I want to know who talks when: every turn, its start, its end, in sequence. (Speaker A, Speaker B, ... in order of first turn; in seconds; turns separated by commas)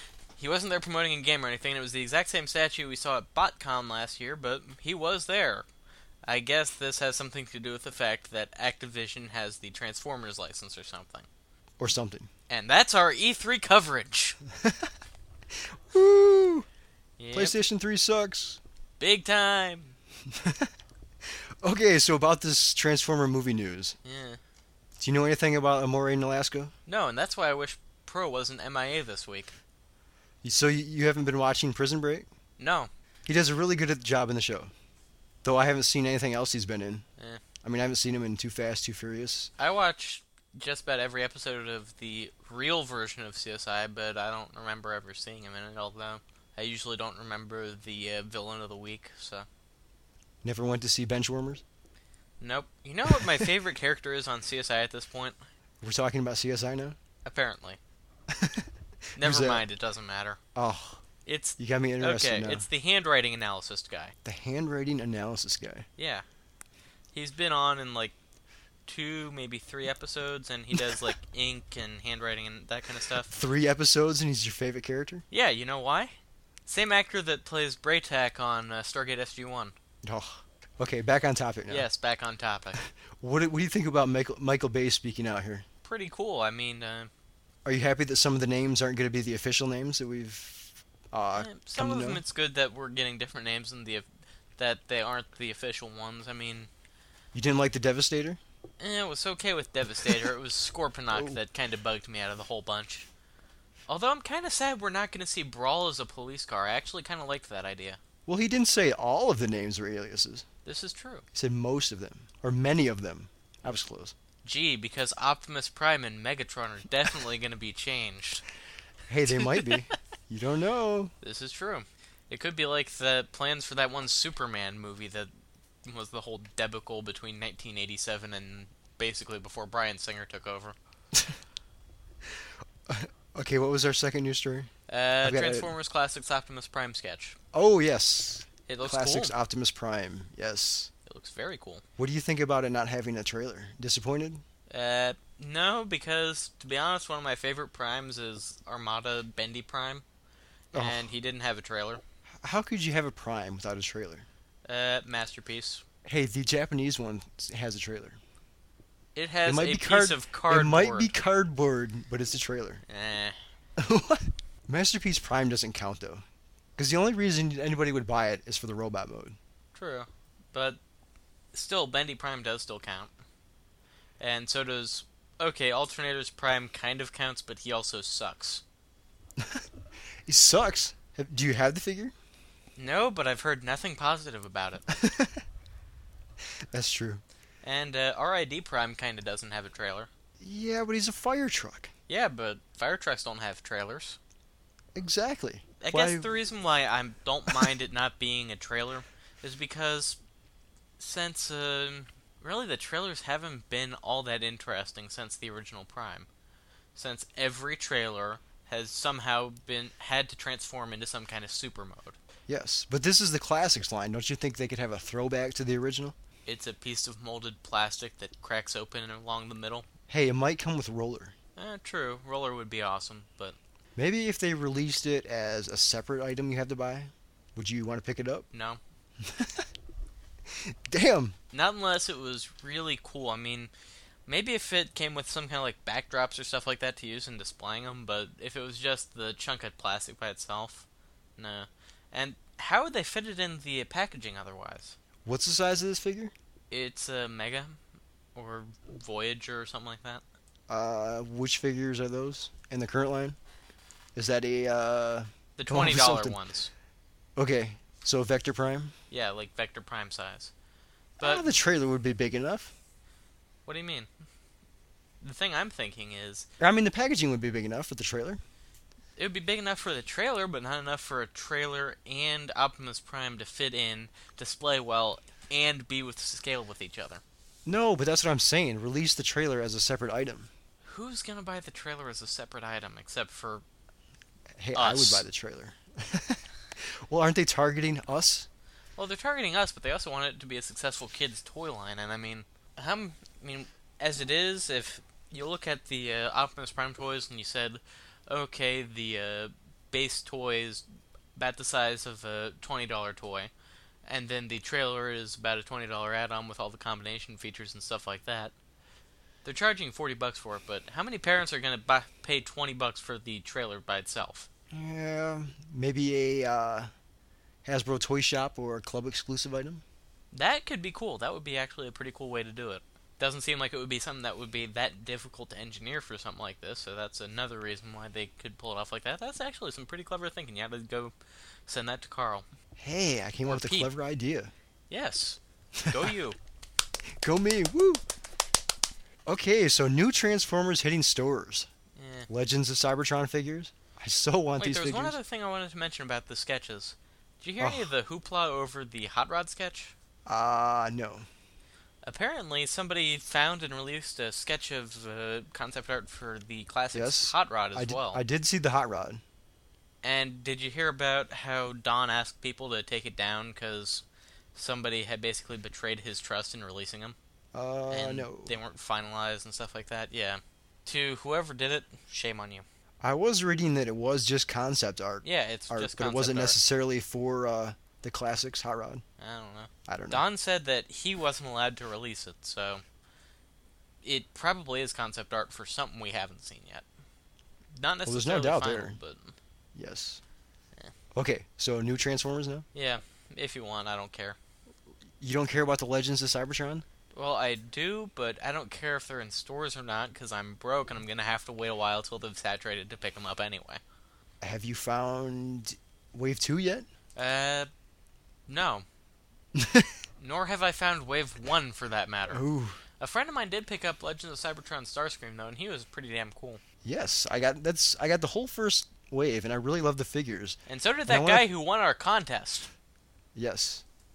Speaker A: 0.4-5.7, Speaker A: 6.2-11.3, Speaker B: 11.8-12.3, Speaker A: 12.5-14.4, Speaker B: 14.6-14.9, Speaker B: 15.5-16.7, Speaker A: 17.2-17.6, Speaker B: 17.3-18.6, Speaker A: 19.0-20.0, Speaker B: 20.3-20.7, Speaker B: 21.3-24.0, Speaker A: 24.0-24.4, Speaker B: 25.0-26.7, Speaker A: 26.9-29.5, Speaker B: 30.4-32.3, Speaker A: 32.6-32.9, Speaker B: 33.3-34.7, Speaker B: 35.4-37.0, Speaker B: 37.6-39.5, Speaker A: 39.6-49.5, Speaker B: 50.4-51.6, Speaker A: 52.4-55.4, Speaker B: 53.1-53.5, Speaker B: 55.8-57.0, Speaker A: 57.2-57.8, Speaker B: 58.3-59.6, Speaker A: 59.2-60.4, Speaker B: 60.5-61.0, Speaker A: 61.2-64.2, Speaker B: 61.6-62.7, Speaker B: 64.2-65.9, Speaker A: 66.0-66.2, Speaker A: 67.1-68.2, Speaker A: 68.9-73.3, Speaker B: 73.3-75.2, Speaker A: 75.3-76.2, Speaker A: 76.7-79.8, Speaker B: 80.0-81.9, Speaker A: 81.7-82.8, Speaker B: 82.8-85.7, Speaker A: 85.8-87.1, Speaker B: 87.7-92.2, Speaker A: 91.3-94.1, Speaker A: 94.6-96.7, Speaker B: 97.3-98.4, Speaker A: 98.8-103.1, Speaker B: 101.1-101.4, Speaker A: 103.9-108.0, Speaker B: 108.3-110.5, Speaker A: 110.7-111.2, Speaker B: 111.3-114.2, Speaker A: 114.4-118.4, Speaker B: 119.1-121.1, Speaker A: 119.3-119.9, Speaker A: 121.2-125.3, Speaker A: 125.8-130.8, Speaker B: 132.4-134.7, Speaker A: 134.9-137.4, Speaker B: 135.2-135.7, Speaker B: 137.5-140.9, Speaker A: 138.7-139.3, Speaker A: 141.1-141.8, Speaker B: 142.0-144.4, Speaker A: 144.7-150.0, Speaker B: 150.7-151.1, Speaker A: 150.7-152.0, Speaker B: 152.4-154.3, Speaker A: 154.7-155.8, Speaker B: 156.1-158.2, Speaker A: 159.2-161.1, Speaker B: 159.4-162.8, Speaker A: 162.9-163.4, Speaker B: 163.8-166.2, Speaker B: 166.8-169.4, Speaker A: 169.8-170.8, Speaker A: 171.5-173.1, Speaker A: 174.2-178.6, Speaker B: 179.4-179.7, Speaker B: 180.3-182.1, Speaker A: 182.8-184.8, Speaker B: 184.9-185.4, Speaker B: 186.7-187.2, Speaker A: 187.6-190.1, Speaker B: 190.4-191.9, Speaker A: 192.1-194.2, Speaker B: 194.9-196.3, Speaker A: 195.8-200.2, Speaker A: 201.0-206.3, Speaker A: 206.9-212.2, Speaker B: 212.5-216.2, Speaker A: 216.5-219.9, Speaker B: 220.1-221.3, Speaker A: 221.6-223.6, Speaker B: 224.0-228.5, Speaker A: 228.5-228.8, Speaker B: 229.2-229.7, Speaker B: 230.6-231.4, Speaker A: 231.5-233.7, Speaker A: 234.3-240.9, Speaker A: 241.4-245.0, Speaker B: 245.2-246.3, Speaker A: 246.7-247.8, Speaker A: 248.3-250.2, Speaker B: 250.7-253.4, Speaker B: 254.2-256.4, Speaker A: 255.6-256.7, Speaker B: 257.4-258.9, Speaker A: 259.1-260.5, Speaker B: 261.2-262.7, Speaker A: 261.2-261.5, Speaker A: 263.7-264.1, Speaker A: 265.2-266.5, Speaker B: 266.6-268.4, Speaker A: 269.2-277.2, Speaker B: 277.7-280.5, Speaker A: 280.8-283.6, Speaker B: 284.6-288.5, Speaker A: 284.7-285.2, Speaker A: 289.0-300.8, Speaker A: 301.4-303.5, Speaker A: 304.1-308.5, Speaker A: 309.4-314.5, Speaker B: 314.7-316.9, Speaker B: 317.6-319.8, Speaker A: 320.3-331.1, Speaker A: 331.7-332.5, Speaker B: 332.8-334.5, Speaker A: 333.5-333.9, Speaker A: 334.9-336.4, Speaker B: 335.8-336.1, Speaker B: 337.2-338.0, Speaker B: 339.3-341.7, Speaker A: 342.0-342.3, Speaker B: 342.3-345.2, Speaker A: 344.6-349.9, Speaker B: 347.6-347.9, Speaker B: 350.3-351.3, Speaker A: 352.0-358.2, Speaker B: 356.9-359.2, Speaker A: 360.0-364.0, Speaker A: 364.6-367.2, Speaker B: 367.5-368.6, Speaker A: 367.9-372.6, Speaker B: 373.0-379.0, Speaker A: 375.2-376.6, Speaker A: 379.2-382.8, Speaker B: 379.9-380.2, Speaker A: 384.0-386.9, Speaker A: 387.8-389.4, Speaker B: 388.1-389.0, Speaker B: 389.8-390.2, Speaker B: 391.1-392.7, Speaker A: 392.7-394.4, Speaker B: 395.2-396.9, Speaker A: 397.1-403.8, Speaker B: 404.4-406.9, Speaker A: 407.2-407.7, Speaker A: 408.5-408.9, Speaker B: 409.6-409.9, Speaker A: 410.2-412.4, Speaker B: 412.3-412.8, Speaker A: 413.0-416.6, Speaker B: 416.8-421.5, Speaker A: 420.7-422.7, Speaker B: 423.4-423.8